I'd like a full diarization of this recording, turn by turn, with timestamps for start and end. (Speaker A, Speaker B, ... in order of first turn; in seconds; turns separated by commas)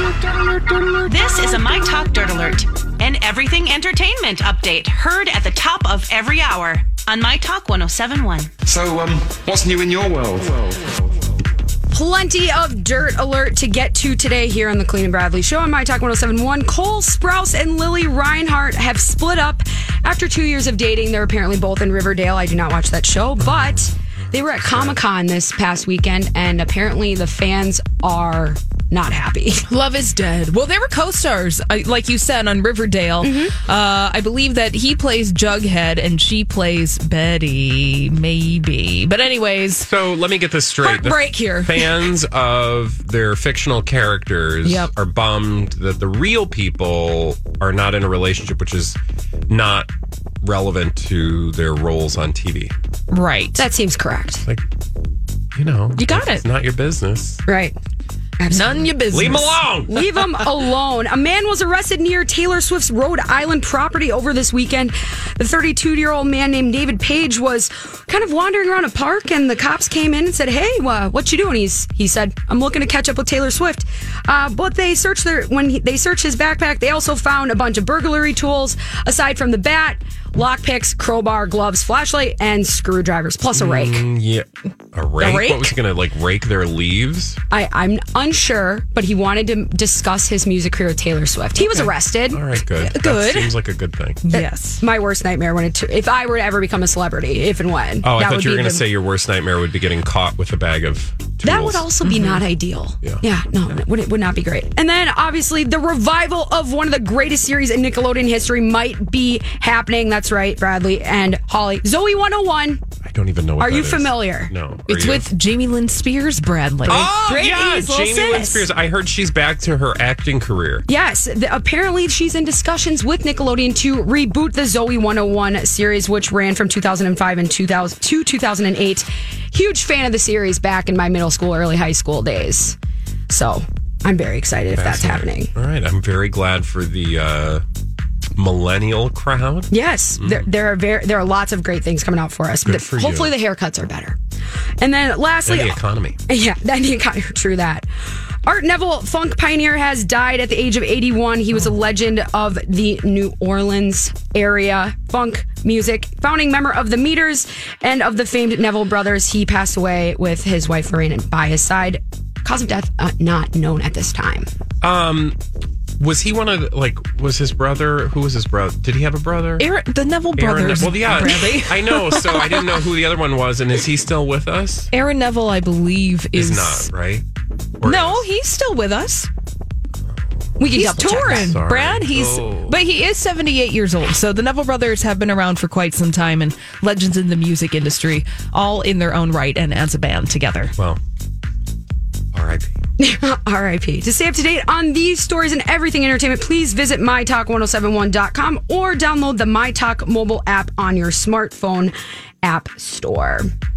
Speaker A: 1.0-8.5, Speaker B: 8.6-10.9, Speaker C: 11.9-29.7, Speaker D: 23.4-25.0, Speaker E: 29.7-39.9, Speaker C: 33.2-33.5, Speaker D: 39.8-49.9, Speaker E: 40.8-41.9, Speaker D: 50.4-52.7, Speaker E: 53.1-53.6, Speaker C: 53.6-54.4, Speaker D: 55.5-57.4, Speaker E: 56.0-56.4, Speaker C: 57.5-57.7, Speaker C: 58.4-58.9, Speaker E: 58.5-59.6, Speaker D: 59.1-60.3, Speaker C: 59.9-84.0, Speaker D: 83.5-87.4, Speaker E: 85.2-85.7, Speaker C: 87.5-92.4, Speaker D: 91.7-94.2, Speaker E: 92.8-93.5, Speaker E: 94.2-94.8, Speaker C: 94.3-98.8, Speaker D: 98.0-101.9, Speaker C: 101.4-112.8, Speaker E: 102.0-102.4, Speaker D: 113.0-115.3, Speaker C: 113.6-114.5, Speaker E: 114.9-117.1, Speaker D: 116.9-120.8, Speaker C: 117.2-118.6, Speaker C: 120.9-132.8, Speaker C: 133.3-135.5, Speaker D: 134.7-137.6, Speaker D: 138.3-140.5, Speaker C: 139.7-144.2, Speaker D: 142.6-143.3, Speaker C: 144.8-147.8, Speaker D: 145.4-146.2, Speaker C: 148.4-164.5, Speaker D: 164.8-165.4, Speaker D: 166.0-169.7, Speaker E: 169.6-172.8, Speaker D: 170.3-174.9, Speaker E: 174.9-176.9, Speaker D: 176.3-177.2, Speaker D: 177.8-178.3, Speaker E: 177.8-179.3, Speaker D: 180.1-182.8, Speaker C: 180.6-181.6, Speaker E: 180.7-190.7, Speaker D: 192.3-192.7, Speaker C: 193.0-203.5